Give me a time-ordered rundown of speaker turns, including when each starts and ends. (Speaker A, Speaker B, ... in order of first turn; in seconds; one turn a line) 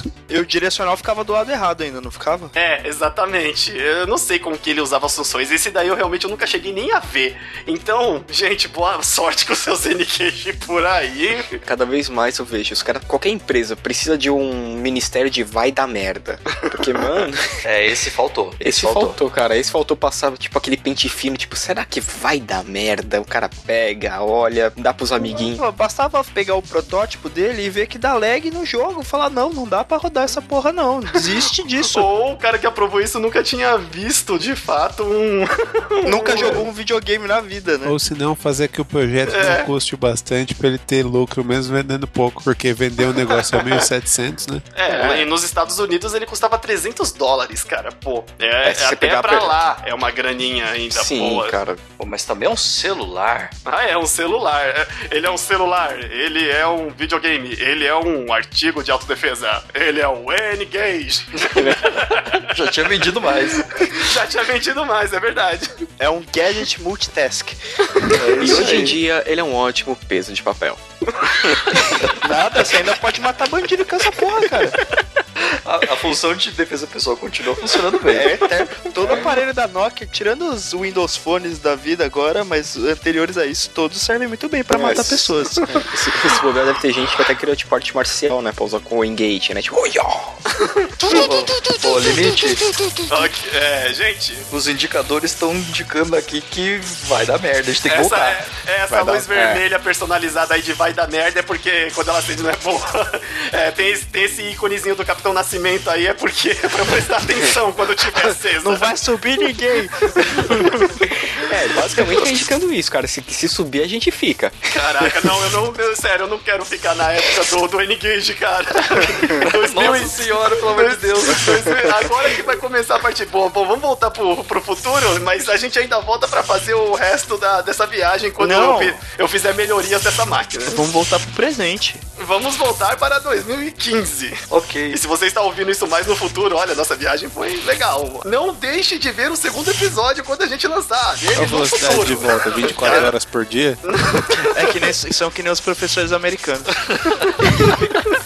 Speaker A: 0.3-2.5
Speaker B: 2.5-11.6
Speaker C: 11.6-17.4
Speaker D: 17.6-19.2
Speaker C: 18.6-25.6
Speaker A: 25.2-32.1
Speaker B: 31.8-36.6
Speaker A: 36.0-38.0
Speaker E: 37.8-44.7
Speaker B: 39.3-39.7
Speaker B: 43.3-43.8
Speaker B: 44.7-51.6
Speaker C: 44.9-45.3
Speaker C: 48.6-49.5
Speaker C: 50.9-51.8
Speaker D: 52.0-53.5
Speaker B: 53.6-62.5
Speaker C: 61.5-62.0
Speaker D: 62.5-64.0
Speaker B: 63.7-65.7
Speaker A: 66.0-67.6
Speaker D: 68.0-69.0
Speaker C: 68.4-71.6
Speaker A: 68.4-68.7
Speaker D: 71.8-72.8
Speaker A: 72.2-74.8
Speaker D: 75.5-78.3
Speaker A: 78.1-85.7
Speaker C: 84.7-90.4
Speaker B: 90.6-91.3
Speaker D: 91.0-92.7
Speaker A: 91.1-91.8
Speaker B: 93.1-94.4
Speaker D: 94.5-98.4
Speaker B: 97.9-108.9
Speaker C: 98.9-99.6
Speaker A: 108.6-110.7
Speaker C: 111.0-115.3
Speaker B: 114.7-130.8
Speaker D: 119.4-121.9
Speaker A: 128.4-129.0
Speaker A: 130.7-132.0
Speaker B: 132.2-134.4
Speaker D: 134.5-135.0
Speaker B: 134.9-143.1
Speaker E: 141.3-143.8
Speaker B: 143.8-144.7
Speaker A: 144.3-146.8